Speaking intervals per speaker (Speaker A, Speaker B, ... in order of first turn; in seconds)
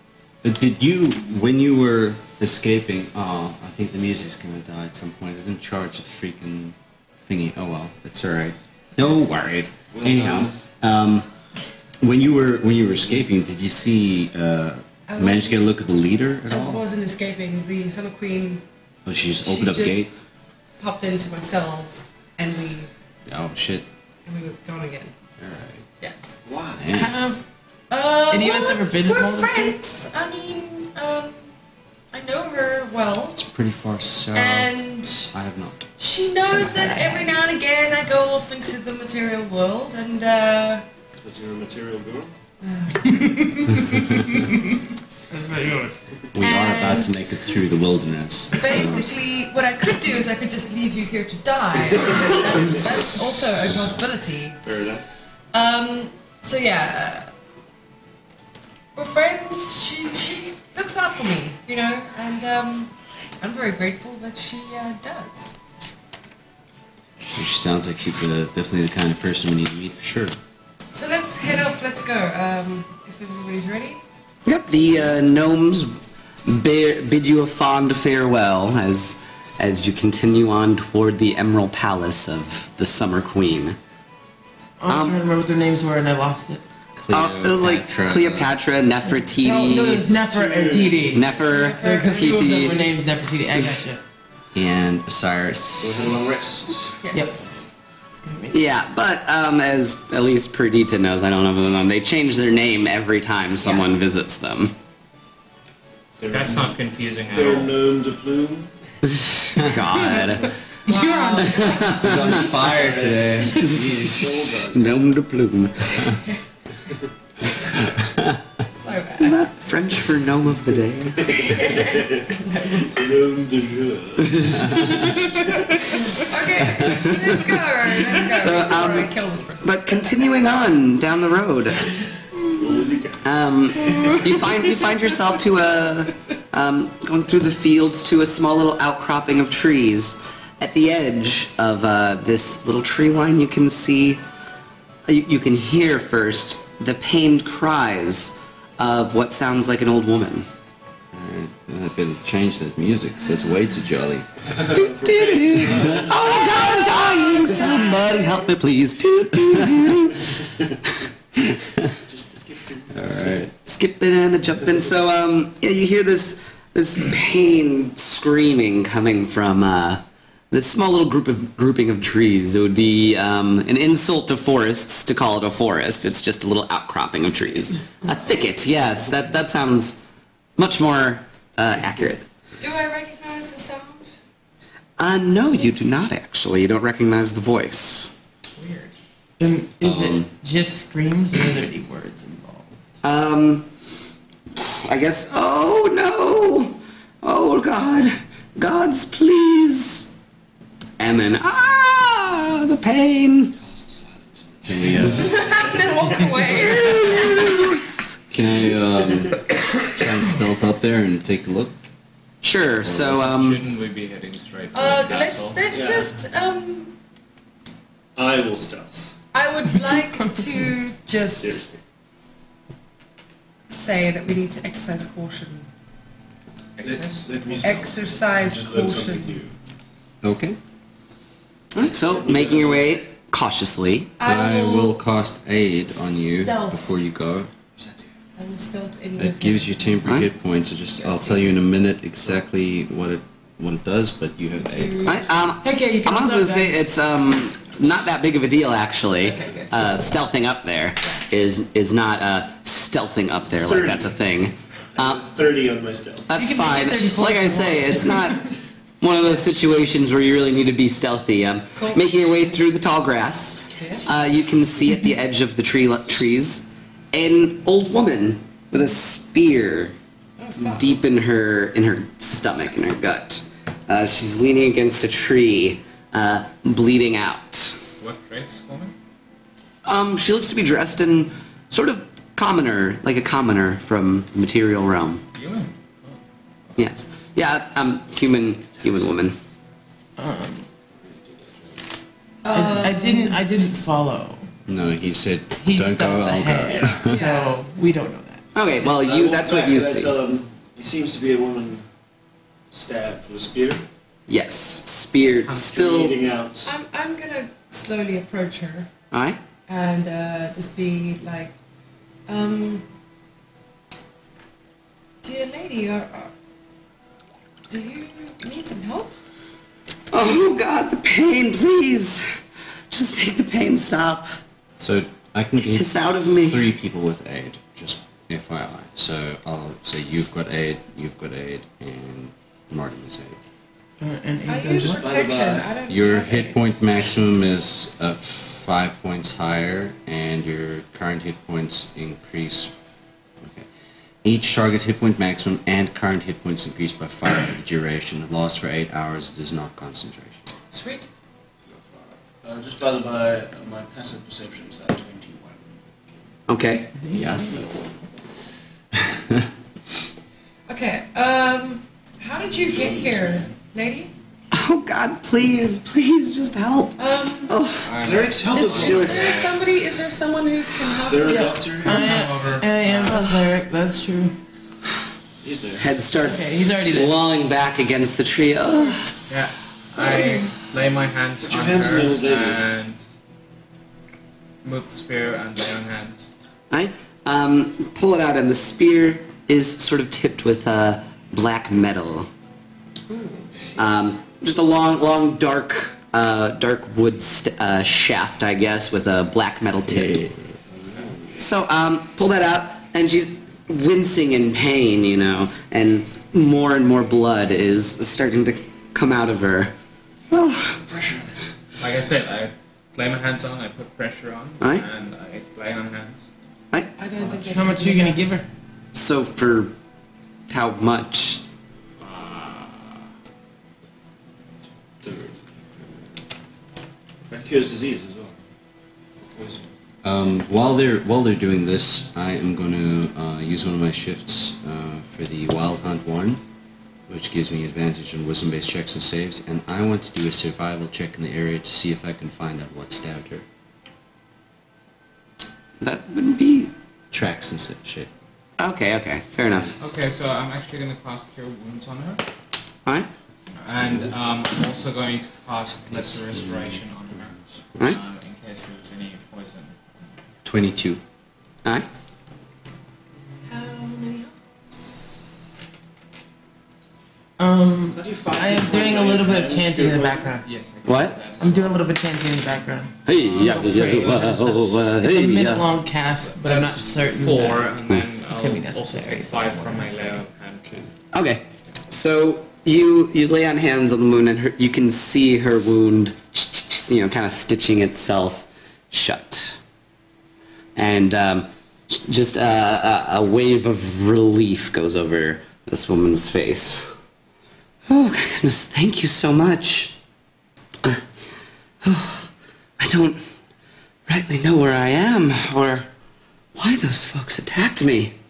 Speaker A: 0.4-11.3, 12.0-16.9, 19.1-20.2, 23.3-23.9, 25.4-25.8, 26.8-27.1, 33.4-34.7, 35.3-35.9, 46.3-49.2, 53.6-53.9, 67.3-70.3, 87.0-88.5, 94.5-96.2, 112.0-114.3, 117.9-118.4, 151.1-154.8, 155.7-156.1, 162.9-163.5, 189.8-190.3, 204.7-205.5, 208.3-211.8, 212.8-213.4, 230.2-230.6, 234.2-237.5, 239.2-245.3, 294.7-297.2, 324.8-333.4, 335.9-342.7, 343.4-343.7, 344.2-350.4, 357.1-357.7, 359.1-359.4, 399.9-400.5, 430.0-436.4, 437.1-443.4, 447.1-448.1, 453.8-454.1, 455.9-456.8, 460.4-461.0
Speaker B: 9.0-10.5, 74.5-83.8, 84.9-85.2, 87.1-90.1, 91.1-92.9, 98.5-104.7, 109.1-110.5, 111.4-112.3, 113.5-116.2, 119.2-121.6, 128.3-131.9, 133.2-144.2, 145.1-150.5, 154.7-160.4, 163.6-180.0, 180.6-182.3, 185.0-188.1, 193.0-193.7, 194.6-200.1, 201.0-203.6, 206.4-207.8, 212.4-213.6, 231.7-234.1, 245.0-255.2, 256.3-258.5, 259.0-269.9, 270.6-277.8, 279.9-285.2, 286.8-289.4, 298.5-300.2, 304.3-306.2, 309.1-309.4, 320.1-322.4, 322.9-324.4, 325.6-326.7, 356.5-357.6, 364.5-368.0, 373.1-373.5, 375.8-379.1, 386.7-392.3, 393.8-400.2, 401.4-409.7, 410.3-410.8, 414.6-414.9, 418.9-419.7, 420.5-421.4, 445.8-446.7, 448.6-449.7, 470.9-471.2, 473.1-475.7, 481.1-489.6, 490.8-496.9, 497.9-500.0, 501.8-503.2, 504.1-505.9, 506.6-508.1
Speaker C: 9.9-10.5, 26.5-26.8, 41.2-42.3, 52.0-53.0, 54.6-55.0, 90.2-91.2, 95.8-97.0, 106.2-106.8, 107.3-108.7, 112.0-115.0, 121.2-126.2, 132.5-133.2, 154.5-158.4, 162.1-163.4, 203.8-206.0, 209.1-209.3, 215.7-216.1, 218.2-219.2, 221.4-221.8, 226.8-229.5, 232.0-233.0, 253.6-254.2, 255.0-256.3, 291.2-291.4, 298.8-301.9, 302.7-303.9, 305.6-306.7, 334.9-335.7, 351.7-355.8, 362.8-363.5, 368.0-369.4, 370.9-372.1, 375.4-375.9, 381.4-382.6, 410.9-411.2, 425.0-425.9, 427.3-428.4, 429.2-429.7, 467.9-470.3
Speaker D: 15.1-15.7, 16.4-18.6, 19.4-20.2, 20.8-22.9, 24.3-25.1, 27.9-31.5, 32.1-33.4, 34.3-35.3, 36.0-40.8, 42.6-43.8, 46.4-47.4, 48.6-54.6, 55.5-57.3, 59.0-65.5, 70.9-74.0, 91.5-92.9, 97.0-97.6, 103.6-103.9, 110.9-112.5, 118.7-119.4, 121.5-123.0, 126.0-129.8, 182.6-184.1, 188.6-188.9, 205.0-207.6, 214.7-216.9, 219.3-221.6, 223.7-225.7, 227.6-229.4, 234.2-235.0, 235.9-237.0, 238.4-240.0, 241.0-241.6, 244.6-245.5, 249.2-249.8, 261.8-262.1, 270.4-271.0, 292.4-293.4, 296.8-297.6, 306.6-308.9, 309.7-311.5, 312.3-312.8, 315.2-316.3, 317.7-319.1, 334.5-336.9, 350.7-351.1, 360.7-364.1, 367.0-367.5, 368.5-371.6, 393.1-394.1, 417.0-418.3, 463.5-465.1
Speaker E: 26.9-27.4, 28.3-29.8, 36.5-37.4, 45.3-46.0, 84.8-86.6, 89.0-94.0, 97.1-97.5, 98.3-98.6, 109.8-111.9, 189.4-192.8, 245.6-246.9, 256.3-258.5, 290.2-290.7, 292.5-294.5, 295.6-298.4, 334.0-335.1, 357.0-357.7, 371.2-374.4, 376.2-377.2, 417.5-418.5, 467.4-470.5, 471.4-479.9
Speaker F: 106.3-107.8, 213.1-215.6, 226.8-227.6, 278.0-278.9, 285.3-286.2, 367.8-369.7, 371.8-373.2, 379.3-383.0, 384.6-386.3, 411.8-416.3, 422.1-422.8, 449.8-452.2, 453.6-459.8, 470.4-471.9, 473.2-474.2, 476.2-480.9